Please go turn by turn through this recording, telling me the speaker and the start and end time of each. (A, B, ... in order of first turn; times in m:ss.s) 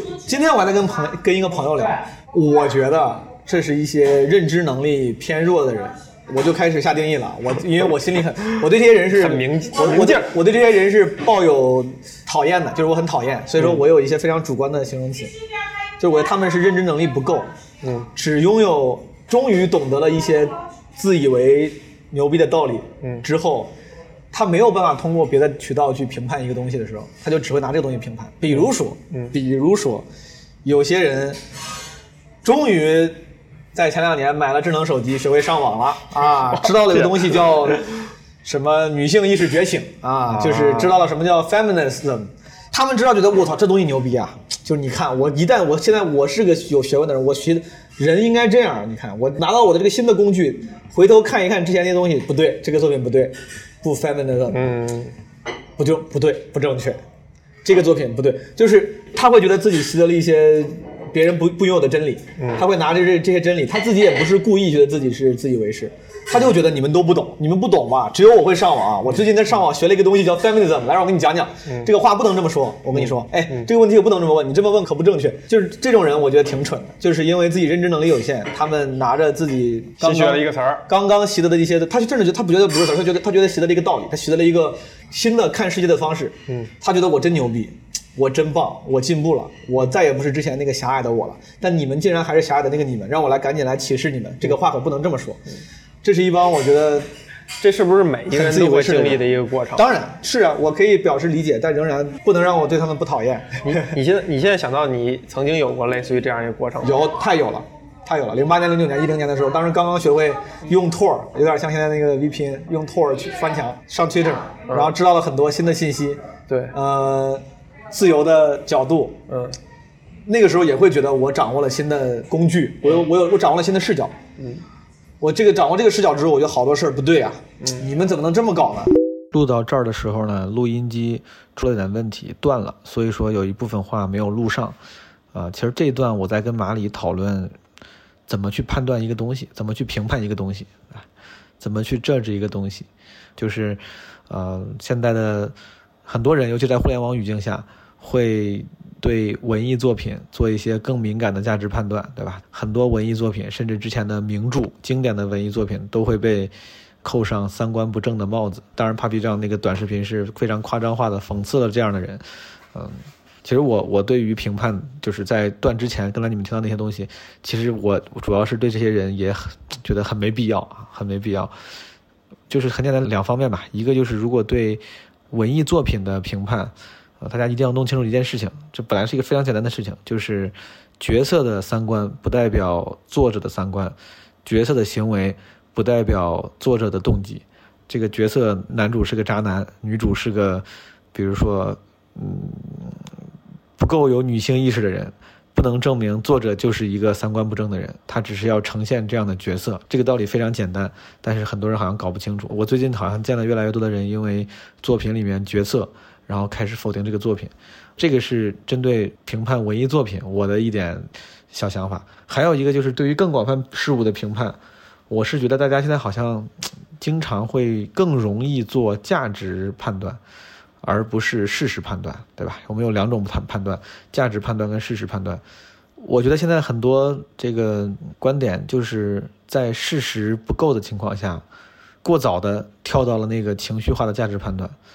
0:00.2-0:15.3 A
0:09.1-0:10.3 B
0:13.6-0:13.8 B
0:16.0-0:17.5 A
0:17.8-0:18.1 B
0:18.1-0:23.7 A
0:24.3-0:30.0 A
0:28.5-0:29.3 B
0:30.6-0:31.4 A
0:32.4-0:33.2 A
0:33.7-0:54.7 A
0:36.6-0:37.8 B
0:40.3-0:41.0 B
0:54.5-0:55.1 B
0:55.8-0:57.0 A
0:57.6-1:35.4 A
1:02.4-1:02.6 B
1:12.9-1:13.7 B
1:20.0-1:20.8 B
1:36.0-1:37.1 A
1:37.6-1:39.8 B
1:38.3-1:43.9 A
1:43.6-1:47.0 B
1:46.8-1:56.2 A
1:56.5-1:56.7 B
1:56.7-1:59.2 A
1:59.3-1:59.6 B
2:00.2-2:04.1 A
2:04.4-2:04.6 B
2:05.2-2:08.9 A
2:07.6-2:07.8 B
2:09.3-2:14.8 C
2:15.3-2:17.5 C
2:18.3-2:21.0 C
2:21.6-2:42.2 C
2:42.7-2:51.5 C
2:52.5-3:13.0 C
3:13.8-3:34.6 C
3:35.1-3:40.2 C
3:40.8-3:45.4 C
3:46.0-3:51.4 C
3:52.0-3:54.7 C